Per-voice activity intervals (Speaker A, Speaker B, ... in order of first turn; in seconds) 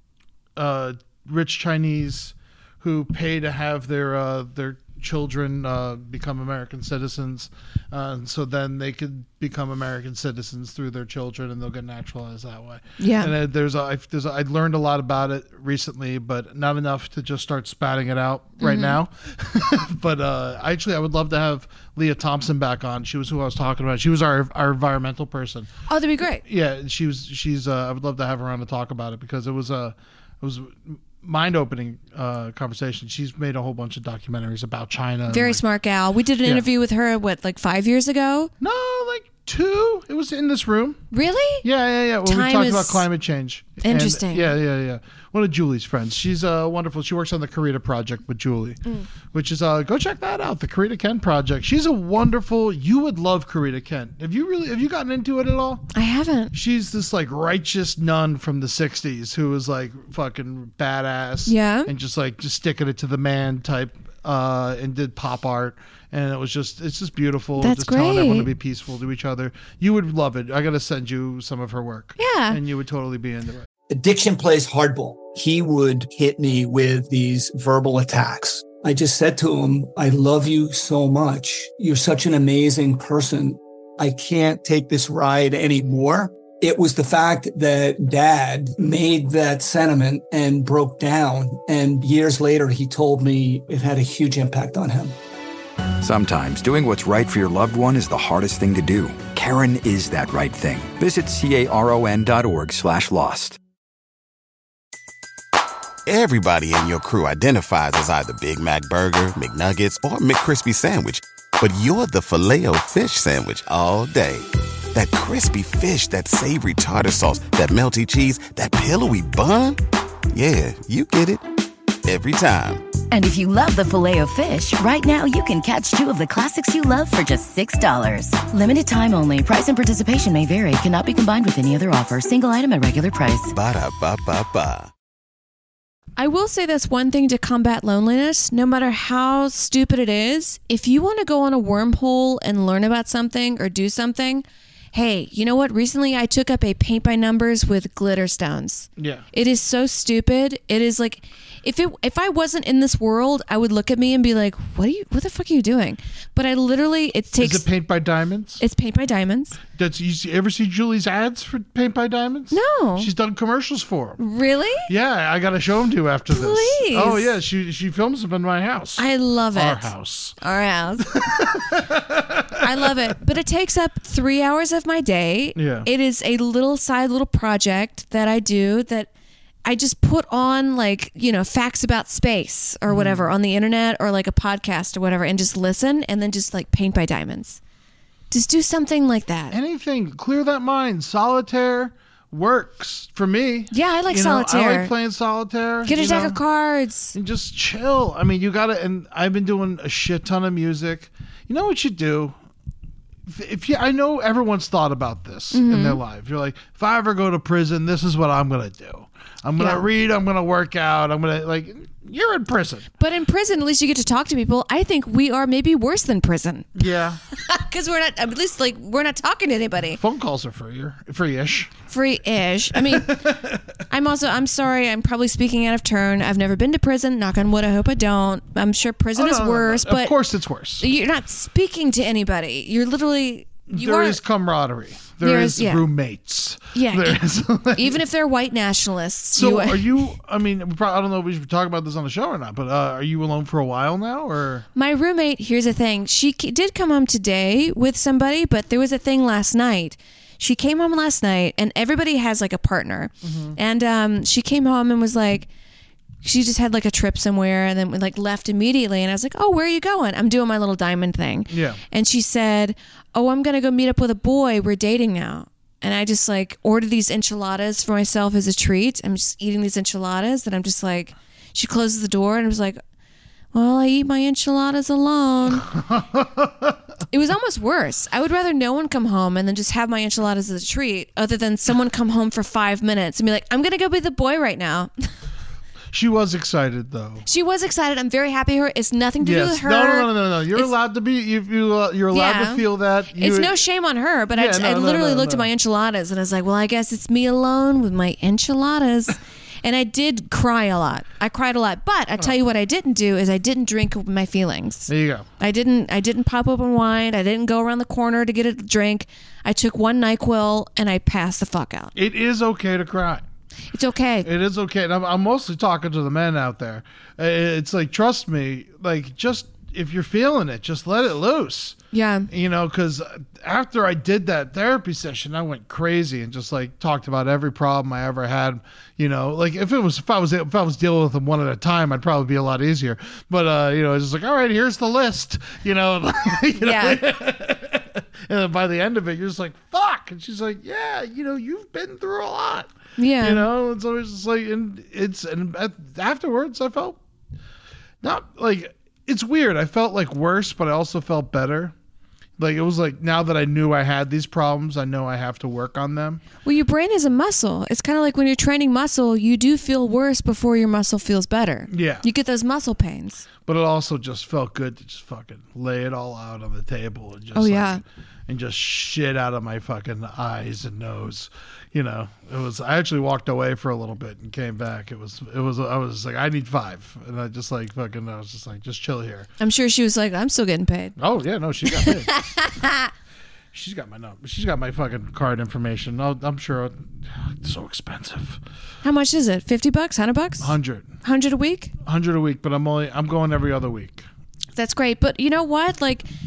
Speaker A: 0.6-25.7, 26.4-35.6, 38.6-41.0, 41.6-55.9, 56.5-73.7, 149.0-149.3, 157.4-158.6, 159.8-164.2, 164.9-170.4, 171.0-173.0, 175.6-175.9, 182.9-183.3, 189.5-196.4, 197.1-202.4, 203.3-212.9, 216.8-217.2, 219.9-221.7, 222.7-223.6, 229.2-230.9, 233.7-238.0, 239.3-244.7, 253.2-253.6, 261.5-261.8, 275.5-276.8, 285.9-287.2, 289.2-293.6, 294.3-295.5, 304.9-305.3, 311.9-313.2, 314.2-321.8, 322.3-347.0, 348.0-351.7, 352.4-356.2, 361.7-362.1, 363.4-379.3, 381.0-382.1, 383.5-388.4, 390.4-390.9, 391.8-394.1
Speaker B: 13.0-13.3, 18.6-19.0, 25.9-26.4, 35.3-38.5, 41.1-41.6, 42.2-43.0, 43.8-44.5, 55.9-56.5, 61.5-61.9, 67.6-68.5, 72.2-72.6, 136.2-157.7, 158.6-159.6, 162.5-163.1, 164.2-164.9, 166.3-167.3, 169.0-171.2, 172.6-179.1, 179.7-187.6, 188.3-189.6, 193.7-194.9, 195.9-197.2, 205.5-206.0, 209.6-209.8, 213.0-220.0, 221.9-223.2, 223.9-230.2, 230.8-234.2, 235.2-235.9, 236.7-240.1, 244.8-255.5, 256.2-272.8, 273.5-275.7, 277.1-285.1, 287.2-290.7, 292.1-311.9, 313.7-314.3, 321.9-322.3, 336.6-337.0, 343.0-343.5, 356.4-363.3, 367.3-367.8, 379.4-381.0, 381.7-382.9, 388.8-391.7, 394.6-396.1
Speaker C: 73.9-95.2
Speaker D: 96.0-103.6
Speaker E: 106.1-119.8, 120.3-121.4, 122.0-122.9, 133.5-134.9
Speaker F: 123.1-133.5